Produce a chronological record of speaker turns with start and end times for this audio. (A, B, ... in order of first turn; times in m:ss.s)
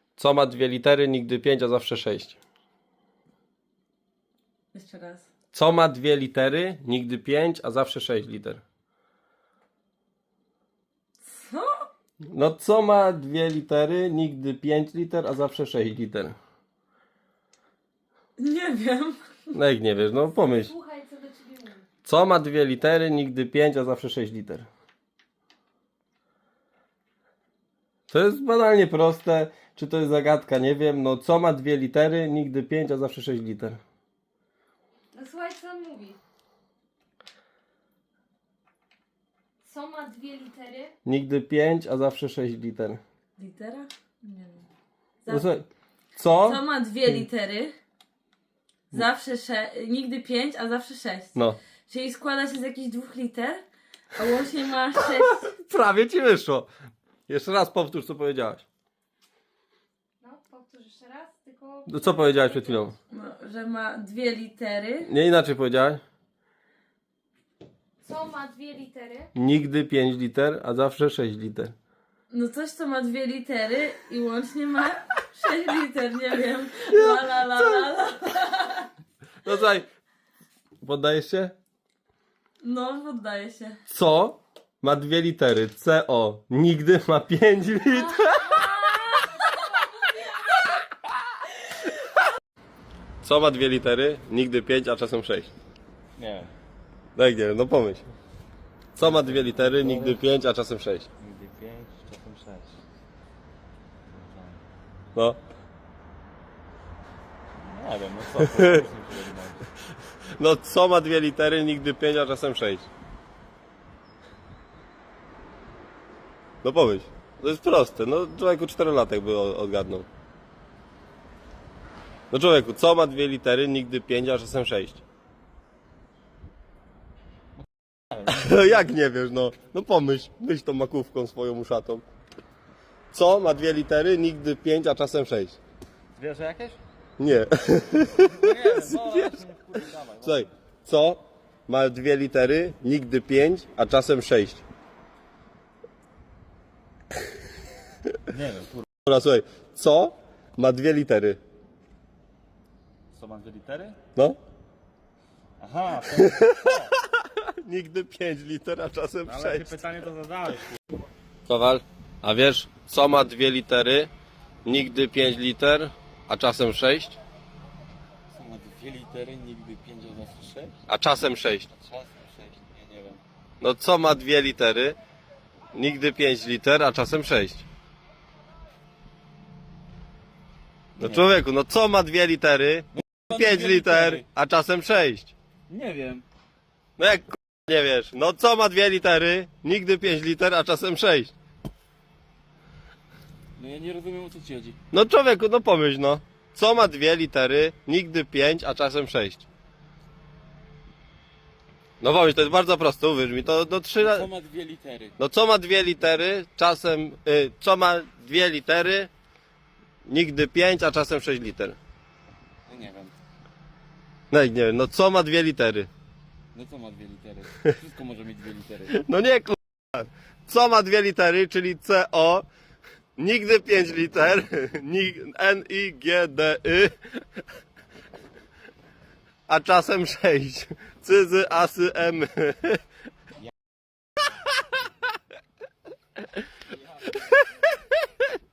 0:00.2-0:02.4 A
0:04.7-0:05.2 B
0:05.5-0:08.6 A
0:11.2-0:11.7 B
0:12.3-0:16.3 A
0:18.4-0:19.5 B
0:19.5-0:20.7 A
0:20.4-0:21.9 C
0:22.0-0:24.6 A
0:28.1-0:33.8 A
0:35.1-0:36.2 C
0:39.6-0:40.9 C
0:41.0-0:43.0 A
0:43.4-0:44.6 B
0:45.3-0:47.2 A
0:46.4-0:47.7 B
0:48.9-0:51.4 B
0:51.9-0:53.6 B
0:54.1-0:55.5 B
0:55.2-0:56.7 A
0:57.3-0:58.6 A
1:00.2-1:02.8 C
1:01.9-1:03.0 A
1:03.1-1:05.1 B
1:05.0-1:06.0 A
1:08.0-1:09.3 C
1:09.4-1:11.7 A
1:12.3-1:18.9 B
1:16.9-1:17.8 A
1:19.4-1:19.9 A
1:20.8-1:21.5 A
1:22.6-1:23.8 B
1:23.9-1:28.7 A
1:28.4-1:29.5 B
1:33.2-1:35.5 A
1:36.2-1:36.5 D
1:37.2-1:38.1 A
1:38.9-1:41.1 A
1:39.0-1:40.2 D
1:41.2-1:42.8 D
1:44.1-1:44.6 D
1:47.6-1:49.7 D
1:50.4-1:52.9 A
1:56.6-2:00.0 A
2:02.3-2:05.0 A
2:08.1-2:08.7 D
2:08.2-2:12.0 A
2:13.1-2:15.6 A
2:16.2-2:16.8 D
2:17.2-2:19.4 A
2:18.2-2:20.5 D
2:20.2-2:24.6 A
2:28.3-2:28.8 D
2:29.0-2:31.4 A
2:33.1-2:34.0 D
2:35.6-2:36.9 D
2:36.2-2:39.8 A
2:39.2-2:40.8 D
2:41.4-2:44.1 A
2:44.6-2:47.2 A
2:48.3-2:50.8 D
2:50.9-2:51.7 A
2:51.7-2:53.2 D
2:53.6-2:55.0 A
2:55.7-2:57.6 A
3:01.0-3:01.2 D
3:01.0-3:05.3 A
3:02.9-3:04.2 D
3:05.7-3:06.2 D
3:07.0-3:11.3 A
3:13.6-3:14.8 D
3:14.9-3:19.5 A
3:22.0-3:24.3 A
3:24.0-3:25.2 D
3:25.2-3:29.1 A
3:30.0-3:31.8 A
3:32.7-3:33.1 D
3:34.3-3:35.9 A
3:36.5-3:39.0 D
3:38.9-3:42.4 A
3:43.2-3:46.9 A
3:49.5-3:52.8 A
3:57.1-3:58.2 A